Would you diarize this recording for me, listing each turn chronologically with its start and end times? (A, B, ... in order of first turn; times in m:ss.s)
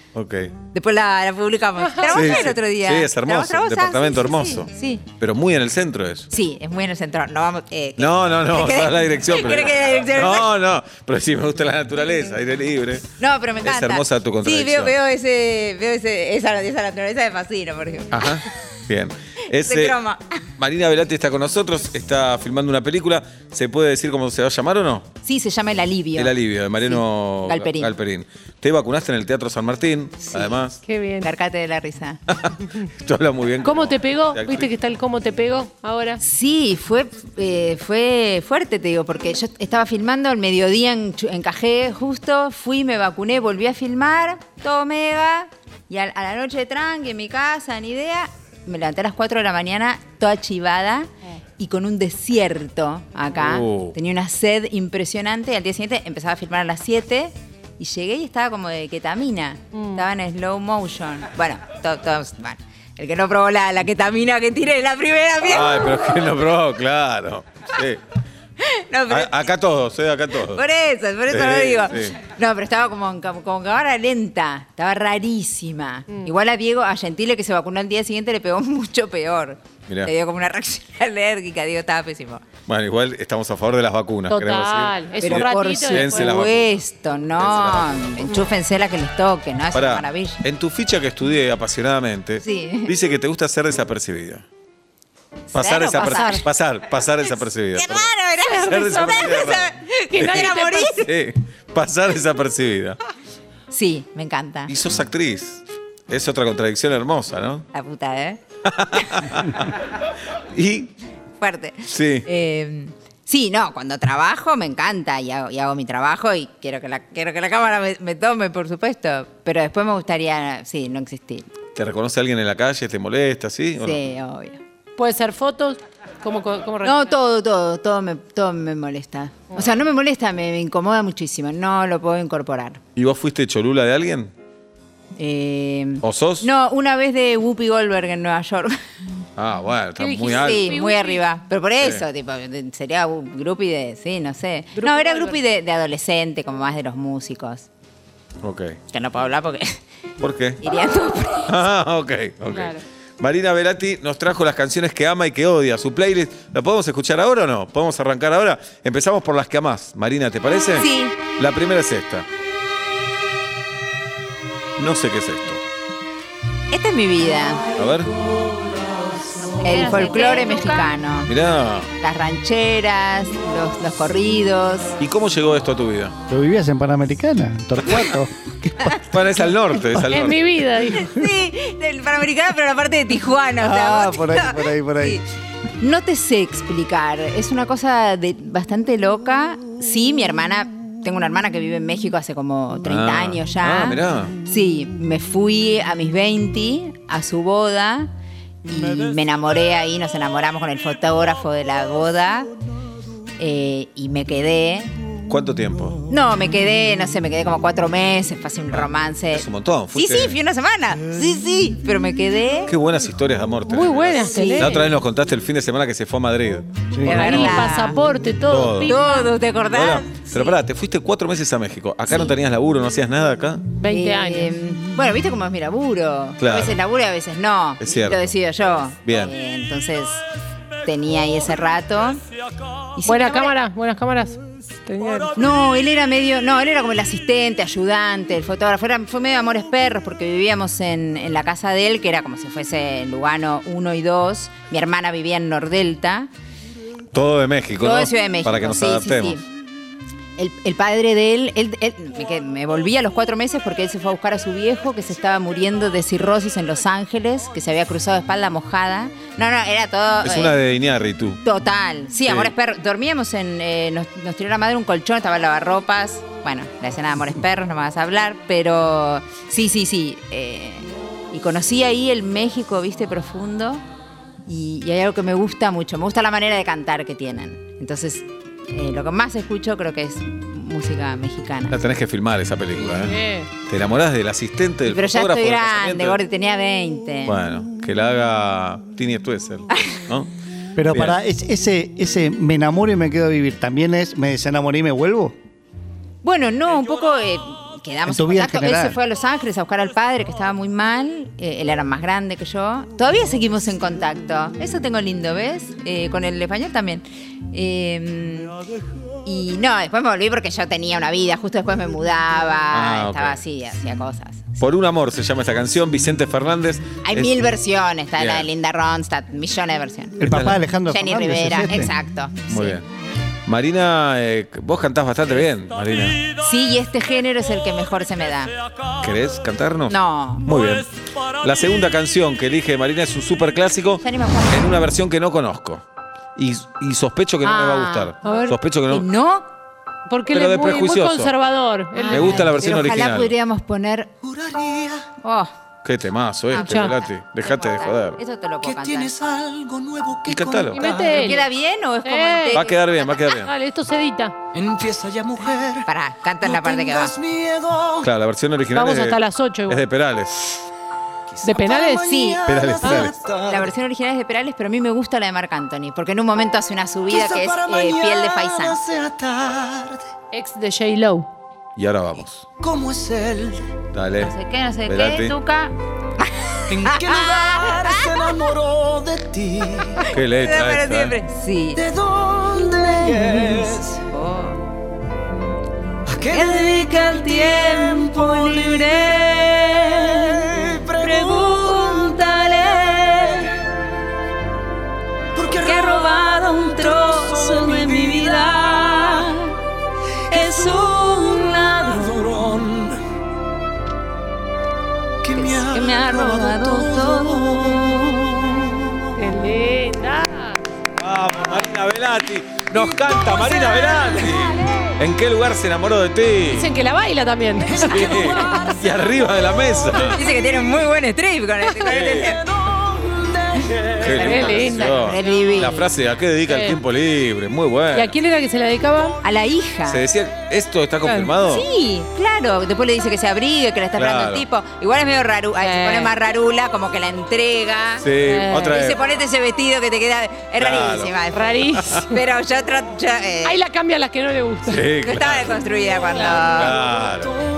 0:00.1-0:00.5 A
0:00.7-0:05.0 B
0:01.8-0:02.3 C
0:02.1-0:06.3 A
0:06.3-0:10.5 B
0:08.0-0:13.1 A
0:13.2-0:18.3 B
0:13.6-0:14.9 A
0:18.1-0:20.0 A
0:19.6-0:20.4 B
0:20.6-0:25.1 A
0:25.2-0:27.9 B
0:26.2-0:30.8 A
0:30.3-0:30.6 B
0:30.8-0:31.3 C
0:31.2-0:32.2 B
0:32.3-0:34.7 A
0:33.6-0:36.2 C
0:36.2-1:06.0 B
0:53.3-0:53.9 A
0:59.7-1:00.0 C
1:05.4-1:08.0 A
1:08.6-1:09.5 B
1:09.1-1:10.6 A
1:10.5-1:22.4 B
1:11.3-1:12.2 A
1:22.7-1:26.7 A
1:24.3-1:26.4 C
1:25.2-1:30.4 B
1:27.4-1:28.4 A
1:29.7-1:34.4 A
1:32.4-1:32.9 B
1:35.5-1:36.4 B
1:35.5-1:40.5 A
1:35.9-1:36.4 C
1:37.8-1:41.1 B
1:38.4-1:39.5 C
1:40.1-1:41.0 C
1:41.0-1:43.0 A
1:43.7-1:44.7 B
1:44.7-1:47.6 A
1:47.7-1:48.4 B
1:48.6-1:49.7 A
1:50.5-1:50.9 A
1:51.4-2:01.5 B
1:51.9-1:52.2 A
2:01.7-2:04.0 A
2:03.8-2:04.6 B
2:05.0-2:07.1 C
2:06.8-2:12.8 B
2:12.9-2:14.3 A
2:15.2-2:18.8 B
2:16.0-2:16.5 A
2:19.4-2:20.7 A
2:20.0-2:21.2 C
2:20.2-2:27.7 B
2:24.8-2:25.4 C
2:28.4-2:28.8 A
2:28.9-2:29.8 B
2:30.2-2:30.6 A
2:30.6-2:31.6 B
2:31.5-2:42.2 A
2:32.5-2:32.8 C
2:40.8-2:41.2 B
2:44.8-2:45.6 A
2:46.7-2:47.7 B
2:47.7-2:48.1 A
2:49.6-2:51.3 B
2:49.7-2:50.8 C
2:51.3-2:51.9 A
2:52.0-2:55.0 B
2:55.0-2:56.2 A
2:56.3-2:59.0 D
2:59.0-3:00.5 A
2:59.9-3:01.2 C
3:00.9-3:05.2 B
3:03.6-3:05.2 D
3:05.8-3:18.1 B
3:12.8-3:14.4 A
3:18.6-3:22.5 B
3:23.4-3:24.9 B
3:25.3-3:26.0 A
3:26.1-3:32.7 B
3:28.7-3:30.4 A
3:32.7-3:37.7 A
3:33.7-3:34.9 C
3:34.3-3:34.8 B
3:36.9-3:37.4 D
3:37.0-3:38.0 B
3:37.0-3:39.3 C
3:38.5-3:38.9 A
3:38.8-3:40.6 B
3:39.7-3:43.6 A
3:43.8-3:44.5 C
3:43.9-3:50.2 B
3:46.4-3:46.8 A
3:47.8-3:48.3 A
3:49.0-3:49.3 A
3:50.8-3:52.2 B
3:53.0-3:53.5 B
3:53.0-3:55.3 C
3:55.3-4:06.3 B
4:07.1-4:09.4 A
4:07.8-4:09.4 B
4:10.4-4:20.6 B
4:20.2-4:21.4 A
4:21.4-4:33.8 B
4:22.2-4:22.5 A
4:34.4-4:41.8 B
4:41.7-4:46.2 A
4:42.8-4:43.5 C
4:44.9-4:47.3 B
4:47.2-4:50.3 A
4:50.8-4:55.4 D
4:50.9-4:51.2 A
4:56.2-5:08.6 B
4:58.1-4:59.0 D
5:09.2-5:14.4 B
5:12.7-5:13.4 A
5:14.6-5:17.3 A
5:17.0-5:20.2 B
5:18.2-5:18.5 A
5:20.2-5:21.9 D
5:20.2-5:20.6 A
5:20.9-5:22.8 B
5:22.5-5:22.8 A
5:23.4-5:26.2 A
5:26.4-5:28.5 B
5:29.0-5:30.9 A
5:29.9-5:30.5 B
5:31.4-5:35.8 A
5:34.0-5:34.7 B
5:36.4-5:39.1 A
5:37.4-5:38.1 B
5:38.2-5:38.6 C
5:38.9-5:39.5 B
5:40.1-5:42.6 C
5:40.3-5:41.3 A
5:42.0-5:44.1 B
5:42.1-5:43.3 A
5:44.2-5:45.0 E
5:45.2-5:45.5 B
5:45.8-5:48.2 A
5:46.5-5:49.1 B
5:46.6-5:46.9 C
5:48.6-5:51.2 E
5:50.3-5:50.8 A
5:50.7-5:51.5 C
5:50.8-5:52.8 B
5:52.0-5:52.6 C
5:52.5-5:53.5 A
5:53.2-5:54.4 C
5:54.5-5:55.9 E
5:55.8-5:57.1 B
5:56.4-5:58.1 E
5:58.0-6:00.6 A
5:58.7-5:59.8 C
6:01.3-6:03.7 E
6:01.4-6:02.1 C
6:02.0-6:08.8 B
6:02.4-6:03.2 A
6:07.1-6:10.0 E
6:10.3-6:11.3 C
6:11.8-6:12.4 A
6:12.6-6:13.6 E
6:13.9-6:14.3 A
6:14.2-6:18.4 B
6:14.9-6:15.3 A
6:16.7-6:20.0 E
6:20.0-6:21.8 B
6:20.0-6:21.1 A
6:21.8-6:24.0 E
6:23.1-6:24.6 B
6:26.0-6:26.9 E
6:26.2-6:33.6 B
6:27.9-6:29.2 E
6:30.7-6:31.9 E
6:35.3-6:36.2 E
6:35.4-6:39.6 B
6:36.8-6:38.3 E
6:40.3-6:42.4 B
6:40.3-6:40.9 E
6:42.0-6:43.0 E
6:45.2-6:49.1 E
6:45.3-6:48.4 B
6:49.1-6:50.6 C
6:51.0-6:56.7 A
6:54.0-6:54.6 B
6:56.4-6:58.5 C
6:57.8-7:00.2 A
7:00.1-7:02.4 B
7:01.8-7:02.4 A
7:02.6-7:03.9 E
7:03.5-7:05.9 B
7:03.8-7:08.1 A
7:04.1-7:05.0 C
7:06.5-7:06.8 C
7:07.9-7:09.2 C
7:09.2-7:10.0 B
7:09.8-7:11.6 A
7:11.0-7:11.3 C
7:11.4-7:18.1 B
7:14.0-7:14.4 A
7:15.6-7:16.1 C
7:18.0-7:19.0 A
7:18.2-7:18.8 C
7:18.6-7:23.6 B
7:20.6-7:21.1 A
7:21.3-7:22.1 C
7:21.7-7:22.0 A
7:23.4-7:24.9 C
7:24.6-7:25.6 A
7:25.0-7:26.8 B
7:26.4-7:27.4 A